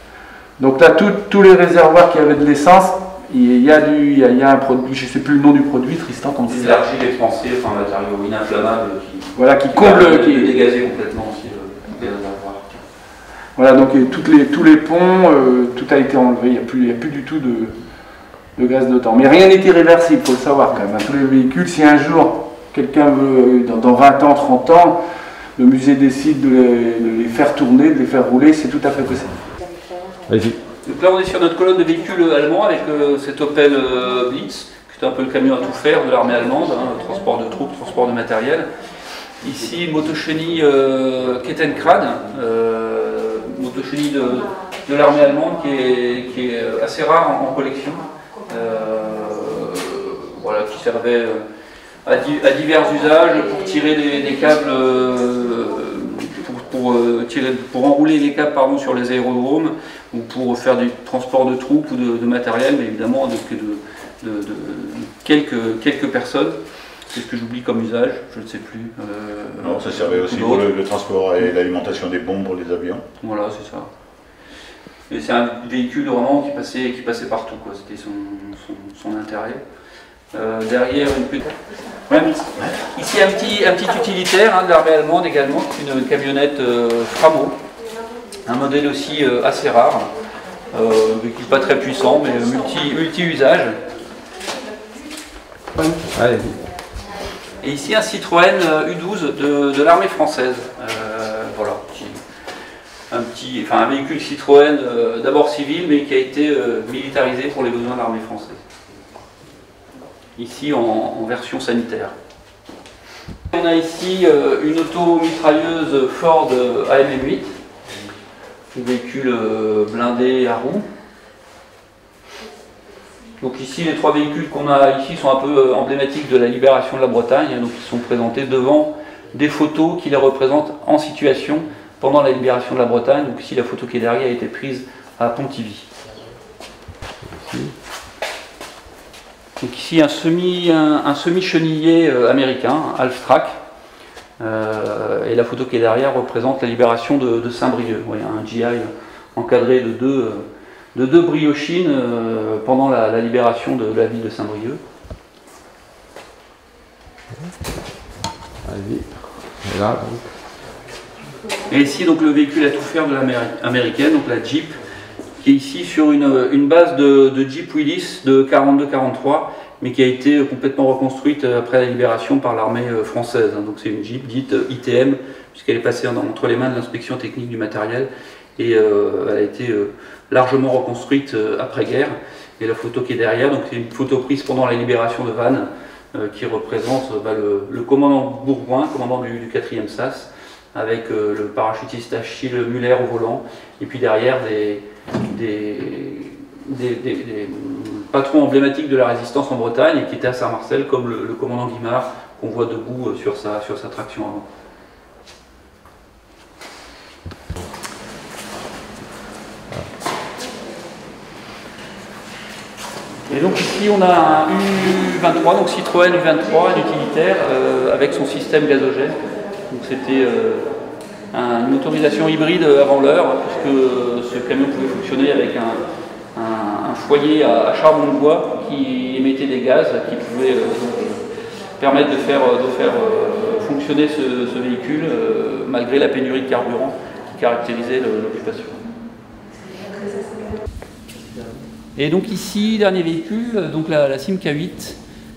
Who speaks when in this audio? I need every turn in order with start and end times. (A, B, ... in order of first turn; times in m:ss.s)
0:00.6-0:06.8 A
0:06.5-0:12.8 B
0:09.4-0:10.6 A
0:13.6-0:17.8 A
0:18.6-0:25.0 A
0:25.6-0:29.4 A
0:30.3-0:30.6 C
0:30.8-0:38.7 B
0:39.4-0:51.4 B
0:52.0-1:06.6 B
1:07.1-1:10.7 B
1:09.6-1:13.0 D
1:13.2-1:13.9 B
1:15.1-1:19.6 B
1:20.3-1:21.4 B
1:22.1-1:27.6 B
1:28.4-1:30.1 B
1:30.7-1:33.8 B
1:36.0-1:36.6 C
1:37.6-1:42.2 B
1:43.1-1:48.6 B
1:50.4-1:52.1 B
1:53.5-1:57.5 B
1:58.7-2:00.8 B
2:03.4-2:15.9 B
2:17.2-2:17.7 C
2:19.6-2:23.6 B
2:24.4-2:34.8 B
2:38.6-2:40.3 C
2:41.7-2:44.8 B
2:45.4-3:24.4 B
3:33.3-3:40.7 B
3:41.3-3:45.8 B
3:46.3-3:51.2 B
3:51.8-3:58.8 B
4:02.0-4:05.0 B